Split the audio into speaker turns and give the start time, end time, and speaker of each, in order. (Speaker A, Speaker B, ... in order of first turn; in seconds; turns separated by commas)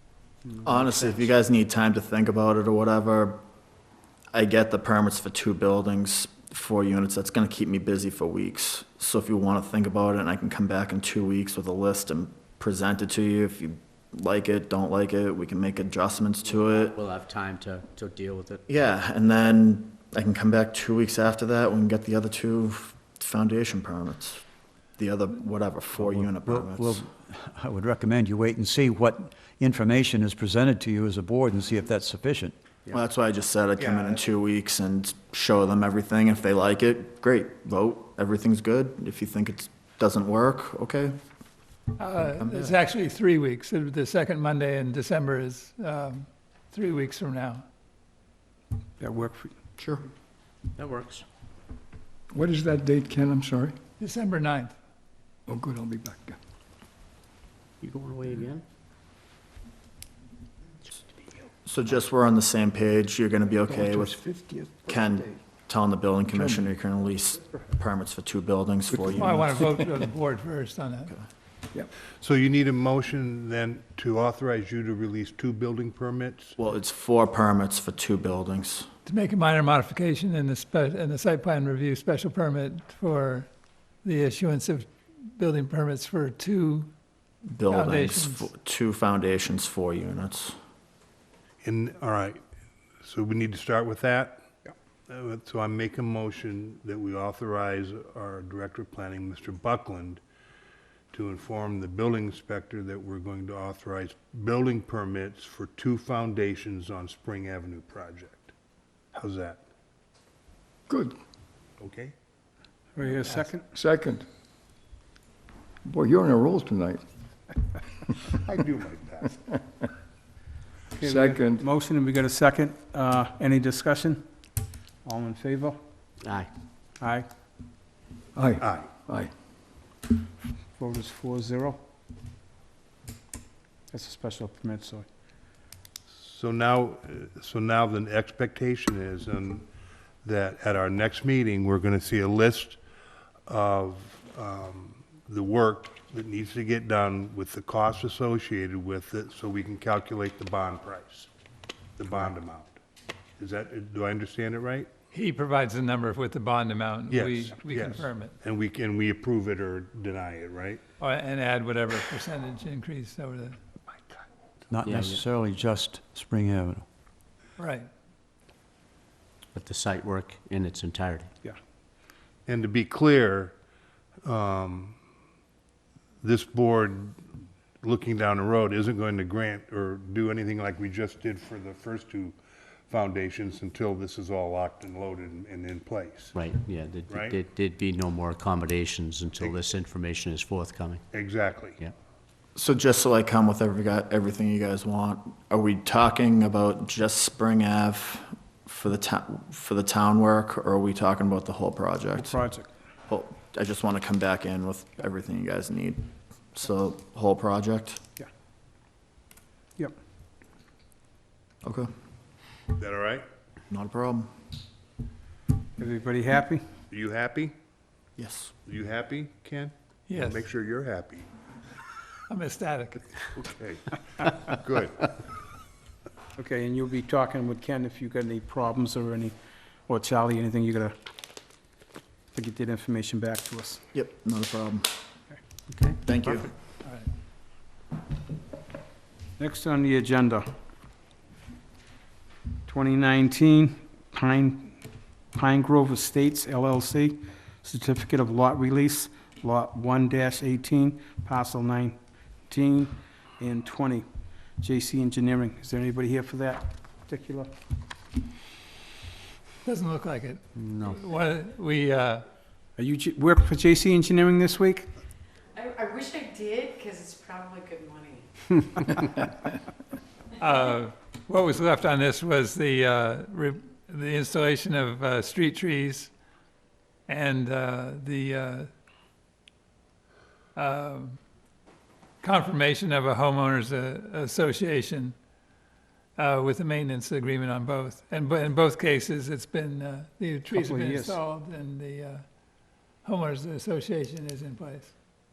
Speaker A: 0.5-1.4, Speaker B: 0.6-3.4, Speaker B: 4.3-17.0, Speaker A: 16.4-18.6, Speaker B: 18.7-24.4, Speaker B: 25.0-27.0, Speaker C: 26.0-32.5, Speaker B: 32.9-41.2, Speaker D: 33.8-34.2, Speaker E: 42.0-47.6, Speaker B: 42.4-42.7, Speaker F: 49.0-49.5, Speaker B: 49.8-50.0, Speaker A: 50.8-51.2, Speaker G: 52.3-53.8, Speaker E: 54.0-54.7, Speaker G: 55.5-56.4, Speaker A: 57.8-58.6, Speaker B: 61.7-64.2, Speaker G: 63.7-65.3, Speaker B: 64.9-69.7, Speaker G: 66.3-66.6, Speaker G: 68.9-70.1, Speaker E: 69.2-71.1, Speaker D: 72.2-76.5, Speaker B: 76.6-78.9, Speaker E: 79.0-83.5, Speaker E: 84.0-86.9, Speaker B: 87.5-90.5, Speaker E: 87.7-88.5, Speaker D: 91.6-92.4, Speaker D: 93.0-94.5, Speaker D: 95.1-100.2, Speaker D: 101.1-108.5, Speaker D: 109.1-109.6, Speaker G: 110.9-111.2, Speaker D: 111.8-112.1, Speaker F: 113.0-113.7, Speaker E: 113.1-113.5, Speaker G: 113.7-114.3, Speaker G: 115.8-117.0, Speaker D: 118.3-119.4, Speaker G: 119.4-119.9, Speaker F: 121.0-124.3, Speaker G: 121.0-121.7, Speaker F: 125.0-125.8, Speaker A: 126.2-126.5, Speaker F: 127.0-127.3, Speaker G: 128.3-129.3, Speaker D: 128.6-128.9, Speaker F: 130.8-131.8, Speaker F: 133.9-135.1, Speaker D: 136.1-139.7, Speaker D: 140.2-142.8, Speaker D: 143.5-151.3, Speaker D: 152.0-152.8, Speaker D: 153.4-154.9, Speaker E: 155.1-158.4, Speaker D: 157.1-160.8, Speaker E: 161.0-163.6, Speaker C: 164.7-166.8, Speaker A: 164.8-165.2, Speaker E: 167.6-167.9, Speaker A: 169.5-171.3, Speaker D: 172.5-173.5, Speaker D: 174.2-175.0, Speaker D: 176.2-177.2, Speaker D: 177.8-182.4, Speaker D: 182.9-186.3, Speaker A: 186.3-191.0, Speaker D: 187.1-187.4, Speaker D: 189.4-189.6, Speaker D: 191.1-191.8, Speaker B: 192.6-202.4, Speaker F: 202.2-202.7, Speaker B: 203.1-208.0, Speaker B: 211.6-211.9, Speaker D: 212.8-213.2, Speaker B: 213.7-214.3, Speaker F: 215.8-216.7, Speaker D: 216.9-217.5, Speaker B: 218.2-218.5, Speaker D: 218.7-221.3, Speaker E: 220.1-220.4, Speaker E: 222.3-223.1, Speaker D: 223.3-225.1, Speaker F: 226.4-230.9, Speaker F: 232.3-233.8, Speaker B: 233.9-234.9, Speaker A: 235.7-236.4, Speaker B: 236.1-236.5, Speaker F: 239.4-240.5, Speaker F: 242.7-244.8, Speaker F: 245.3-254.1, Speaker F: 254.6-257.5, Speaker E: 259.6-262.2, Speaker A: 260.6-261.0, Speaker F: 262.8-264.9, Speaker H: 265.6-268.2, Speaker E: 270.4-276.1, Speaker E: 277.1-278.7, Speaker E: 280.6-281.2, Speaker E: 282.2-285.1, Speaker E: 286.2-292.2, Speaker F: 290.5-291.2, Speaker E: 293.0-294.9